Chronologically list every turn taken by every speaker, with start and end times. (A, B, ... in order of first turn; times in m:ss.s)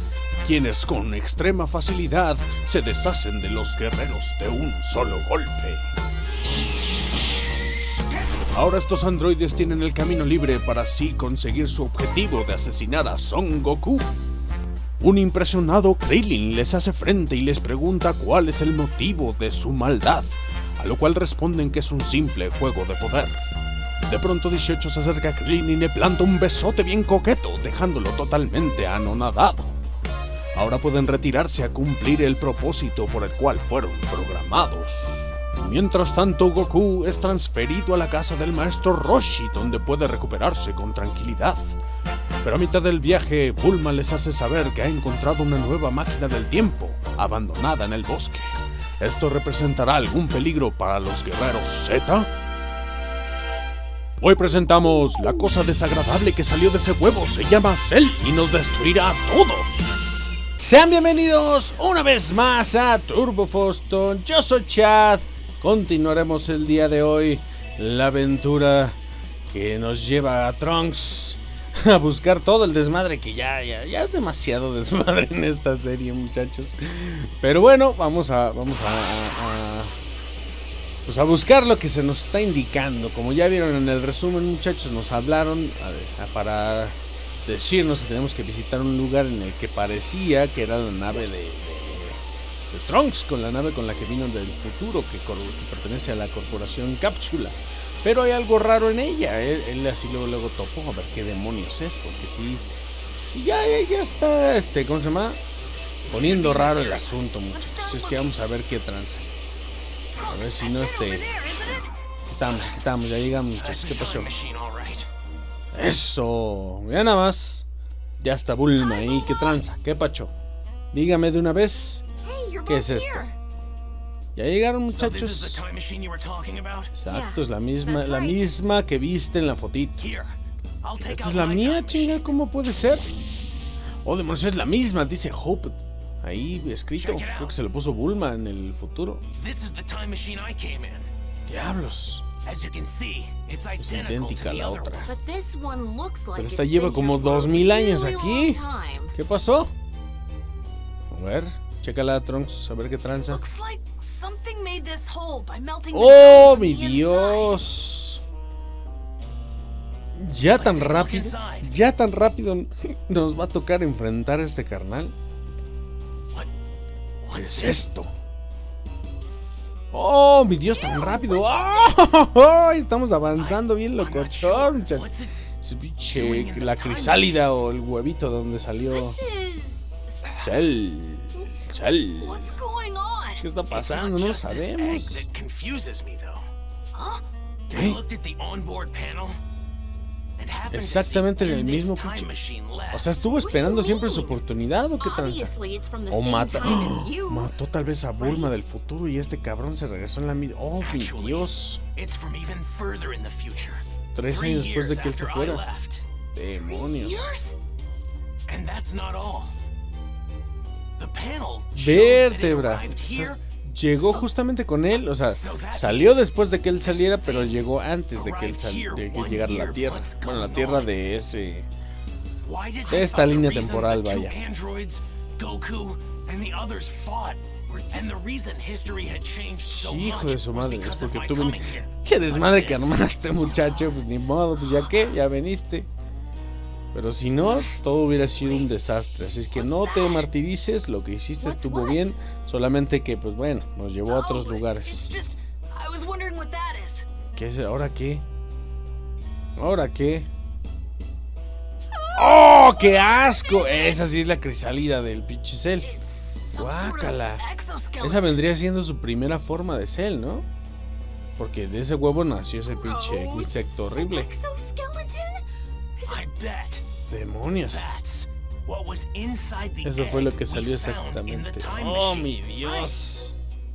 0:00.4-0:05.9 A
0:08.5-0:14.1 A
0:15.0-0:23.3 A
0:24.1-0:29.7 A
0:30.5-0:41.8 A
0:42.4-0:52.3 A
0:54.2-1:20.0 A
1:21.1-1:42.7 A
1:43.2-1:45.4 A
1:46.0-1:47.2 B
1:46.1-1:49.3 A
1:47.5-1:48.4 C
1:50.1-1:52.0 C
1:50.3-1:51.3 A
1:52.3-1:54.3 A
1:53.6-1:55.1 B
1:55.7-1:57.7 A
1:58.2-2:00.3 A
1:58.8-1:59.6 C
2:00.9-2:02.0 A
2:02.2-2:03.4 C
2:02.7-2:03.3 A
2:04.4-2:05.6 A
2:04.9-2:07.0 B
2:06.9-2:10.1 A
2:07.0-2:08.6 C
2:10.0-2:12.3 B
2:11.0-2:13.1 A
2:14.0-2:19.2 A
2:17.0-2:17.5 B
2:19.3-2:21.1 B
2:21.5-2:22.2 A
2:22.4-2:25.1 B
2:23.8-2:25.1 A
2:25.0-2:29.2 C
2:26.4-2:28.6 A
2:29.1-2:29.7 A
2:31.1-2:33.4 A
2:33.3-2:37.7 C
2:35.9-2:38.2 A
2:40.2-2:45.1 A
2:40.5-2:41.7 B
2:47.2-2:47.8 B
2:47.3-2:48.1 A
2:49.9-2:59.2 A
2:50.7-2:52.0 C
2:53.4-2:55.3 B
2:56.1-2:57.3 B
2:58.9-3:00.4 C
3:00.4-3:02.6 A
3:01.4-3:01.6 C
3:02.2-3:03.5 C
3:03.4-3:05.3 A
3:03.7-3:06.5 B
3:06.9-3:07.2 C
3:07.7-3:08.0 A
3:07.7-3:09.4 B
3:10.4-3:13.2 B
3:10.7-3:12.3 A
3:12.9-3:15.5 A
3:13.4-3:14.4 C
3:15.0-3:17.5 C
3:16.1-3:21.8 A
3:18.2-3:18.6 C
3:20.8-3:26.0 B
3:24.2-3:25.6 A
3:26.3-3:27.3 A
3:26.6-3:27.6 C
3:28.5-3:29.5 B
3:31.0-3:33.4 B
3:31.8-3:41.7 A
3:35.2-3:37.6 B
3:38.1-3:40.9 B
3:42.4-3:53.1 B
3:42.9-3:44.4 A
3:49.6-3:55.9 A
3:56.9-4:05.1 A
3:57.4-3:57.8 C
3:58.4-3:58.7 C
3:59.6-4:00.3 C
4:01.4-4:02.1 C
4:04.1-4:07.1 C
4:07.3-4:08.3 A
4:09.6-4:10.3 A
4:11.9-4:14.1 C
4:12.2-4:15.9 A
4:15.8-4:18.4 C
4:16.6-4:17.5 A
4:18.0-4:20.5 A
4:21.4-4:24.3 A
4:22.7-4:25.4 C
4:26.0-4:26.3 C
4:26.0-4:26.8 B
4:27.1-4:27.9 A
4:27.7-4:33.0 B
4:29.8-4:33.4 A